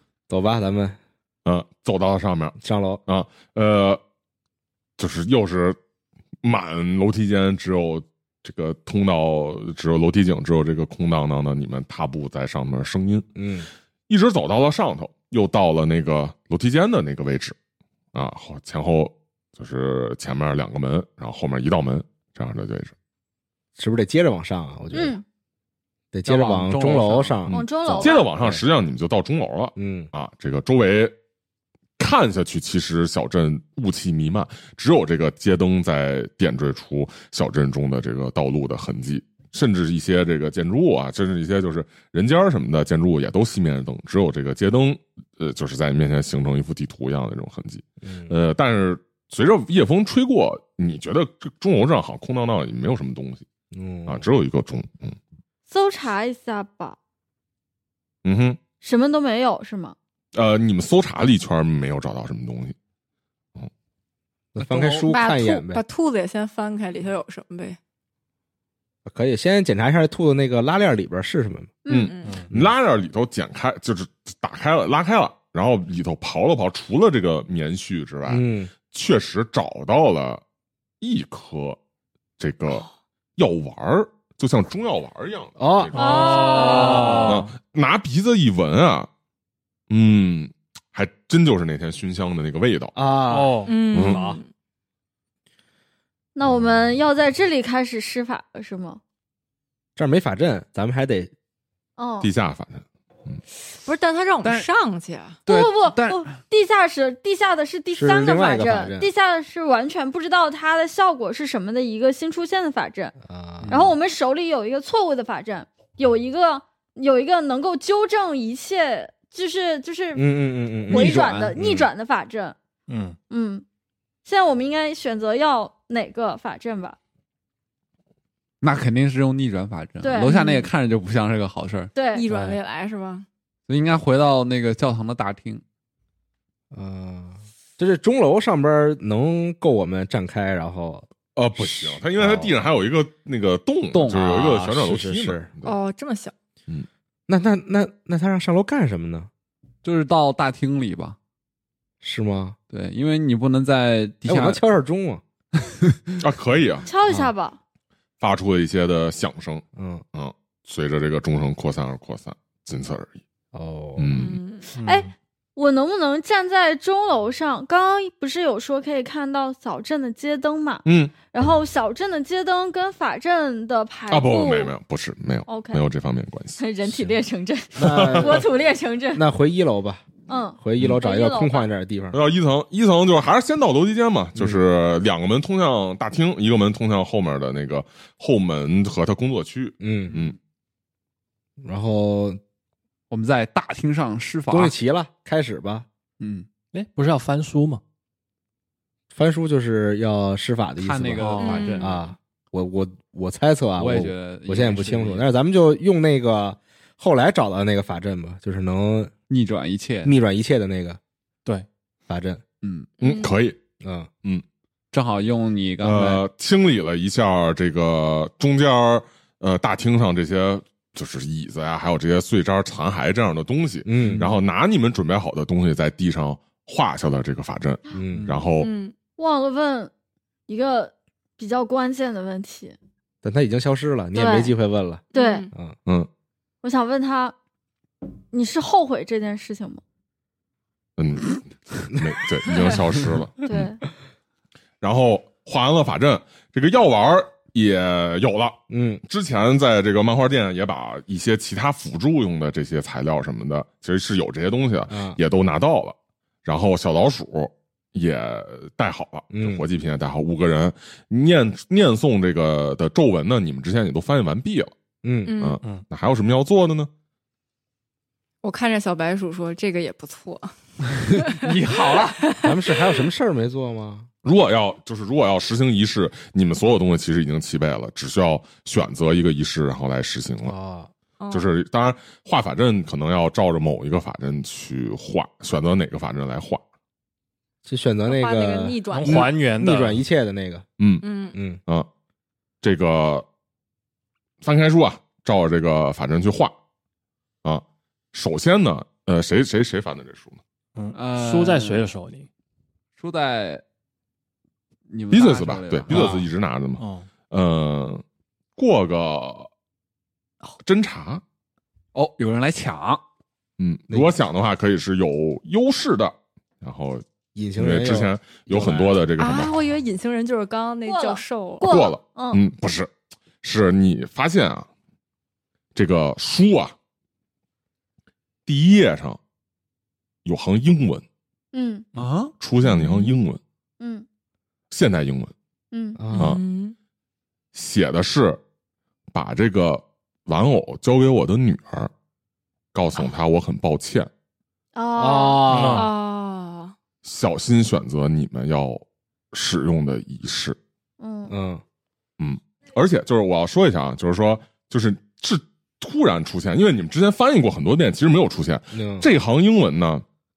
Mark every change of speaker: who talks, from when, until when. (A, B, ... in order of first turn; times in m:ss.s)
0:00.3-0:01.0 A
0:01.5-0:04.0 B
0:02.6-0:03.0 A
0:05.0-0:05.8 B
0:06.4-0:13.3 B
0:13.4-0:13.7 A
0:14.1-0:17.6 B
0:18.1-0:22.9 B
0:23.8-0:25.2 A
0:24.9-0:25.2 C
0:26.1-0:28.1 A
0:26.3-0:27.4 D
0:27.5-0:28.3 C
0:27.5-0:31.1 B
0:29.8-0:30.1 A
0:32.0-0:53.4 B
0:48.0-0:48.3 A
0:53.7-0:54.2 A
0:54.1-0:55.2 B
0:55.7-0:57.0 C
0:58.2-0:58.6 B
0:58.8-1:00.0 C
1:00.4-1:02.8 B
1:04.6-1:05.8 A
1:04.6-1:05.0 D
1:05.0-1:07.8 E
1:09.0-1:11.7 A
1:11.9-1:12.2 C
1:11.9-1:20.4 B
1:12.0-1:12.4 E
1:12.3-1:12.5 F
1:18.3-1:18.7 A
1:21.0-1:21.8 B
1:22.4-1:22.9 B
1:23.4-1:29.1 B
1:25.6-1:25.9 A
1:25.9-1:27.5 F
1:26.0-1:27.3 C
1:26.0-1:27.0 E
1:29.9-1:33.0 B
1:33.0-1:34.4 A
1:33.3-1:33.8 F
1:33.7-1:34.5 E
1:33.9-1:34.2 B
1:36.4-1:39.0 C
1:40.0-1:41.3 A
1:42.0-1:42.3 C
1:42.2-1:43.4 B
1:43.8-1:45.4 E
1:45.5-1:46.4 D
1:45.5-1:53.2 C
1:47.9-1:49.1 A
1:53.2-1:53.9 A
1:53.6-1:53.9 D
1:53.7-2:02.6 C
2:00.2-2:01.9 A
2:00.9-2:01.5 D
2:02.9-2:03.2 F
2:03.3-2:03.6 C
2:04.2-2:07.0 C
2:08.6-2:11.9 D
2:10.0-2:10.5 C
2:10.3-2:10.6 E
2:11.9-2:12.3 C
2:12.1-2:13.3 E
2:12.3-2:12.6 F
2:13.7-2:15.6 D
2:16.7-2:22.6 A
2:21.4-2:25.8 B
2:23.9-2:25.5 A
2:25.6-2:26.3 E
2:27.3-2:29.3 A
2:29.8-2:31.2 D
2:32.0-2:32.6 A
2:32.7-2:34.6 D
2:34.2-2:35.2 A
2:36.2-2:36.9 B
2:36.9-2:37.6 C
2:38.2-2:43.2 B
2:39.8-2:40.0 A
2:43.5-2:44.1 A
2:44.0-2:44.4 B
2:44.1-2:44.8 E
2:44.8-2:45.1 F
2:44.8-2:54.7 C
2:50.8-2:51.1 B
2:54.1-2:56.6 B
2:55.5-2:55.8 C
2:56.6-2:59.2 C
2:57.8-2:58.5 A
2:57.8-2:58.5 B
2:59.1-3:00.1 A
3:00.3-3:01.7 C
3:00.6-3:02.2 A
3:02.1-3:10.4 B
3:04.4-3:04.6 A
3:09.8-3:10.2 A
3:11.6-3:12.4 A
3:13.1-3:14.8 D
3:14.5-3:15.9 A
3:16.2-3:16.5 D
3:16.7-3:17.8 F
3:19.1-3:29.1 A
3:20.8-3:21.9 D
3:21.2-3:21.9 F
3:21.4-3:21.9 E
3:23.8-3:25.2 D
3:29.3-3:30.1 D
3:30.0-3:31.0 A
3:32.1-3:32.4 A
3:32.6-3:32.9 D
3:33.0-3:33.4 E
3:33.0-3:33.6 B
3:33.8-3:34.1 A
3:34.9-3:36.2 D
3:35.8-3:48.7 B
3:43.8-3:44.3 A
3:47.9-3:48.3 A
3:48.6-3:48.9 E
3:49.2-3:49.9 C
3:50.5-3:52.8 C
3:53.2-3:55.8 A
3:54.1-3:54.5 C
3:55.1-3:55.5 E
3:55.1-3:55.5 C
3:56.6-3:57.4 C
3:58.3-3:59.8 C
4:01.0-4:03.7 B
4:02.5-4:02.7 E
4:03.5-4:03.8 C
4:04.8-4:24.7 B
4:08.7-4:09.0 A
4:14.9-4:15.2 A
4:19.3-4:19.6 A
4:25.0-4:25.3 A
4:25.3-4:25.6 E
4:25.4-4:26.9 B
4:28.4-4:30.5 E
4:31.2-4:31.5 E
4:31.5-4:34.1 A
4:32.2-4:32.9 E
4:34.2-4:40.6 B
4:40.4-4:40.9 A
4:41.2-4:41.5 E
4:41.3-4:46.6 B
4:47.6-4:50.6 A
4:48.1-4:49.4 E
4:49.0-4:50.0 F
4:50.8-4:51.1 B
4:51.0-4:51.4 E
4:51.3-4:51.6 A
4:52.6-4:53.2 B
4:54.4-4:56.5 B
4:57.4-5:00.4 B
5:00.8-5:02.3 F
5:00.9-5:01.8 D
5:03.0-5:03.6 D
5:04.9-5:06.2 D
5:05.1-5:08.0 B
5:05.9-5:06.2 F
5:06.8-5:07.1 F
5:08.6-5:09.5 B
5:10.6-5:11.2 B
5:11.9-5:13.0 D
5:13.6-5:17.0 B
5:17.4-5:19.0 A
5:17.6-5:19.5 B
5:19.2-5:21.7 E
5:20.9-5:22.4 C
5:21.6-5:22.9 B
5:23.4-5:24.7 B
5:25.8-5:26.8 B
5:28.5-5:29.2 B
5:30.2-5:31.0 B
5:31.5-5:31.9 C
5:32.0-5:32.3 D
5:32.4-5:33.4 B
5:33.8-5:34.1 C
5:34.7-5:35.3 B
5:35.7-5:36.0 C
5:36.0-5:36.4 A
5:36.2-5:36.8 E
5:37.5-5:38.4 B
5:39.1-5:41.9 B
5:42.7-5:44.1 B
5:44.8-5:45.9 C
5:45.0-5:45.9 A
5:45.5-5:45.9 F
5:45.7-5:46.7 E
5:47.0-5:50.6 B
5:51.0-5:51.3 C
5:51.3-5:51.6 A
5:52.2-6:00.0 B
5:58.7-5:59.1 A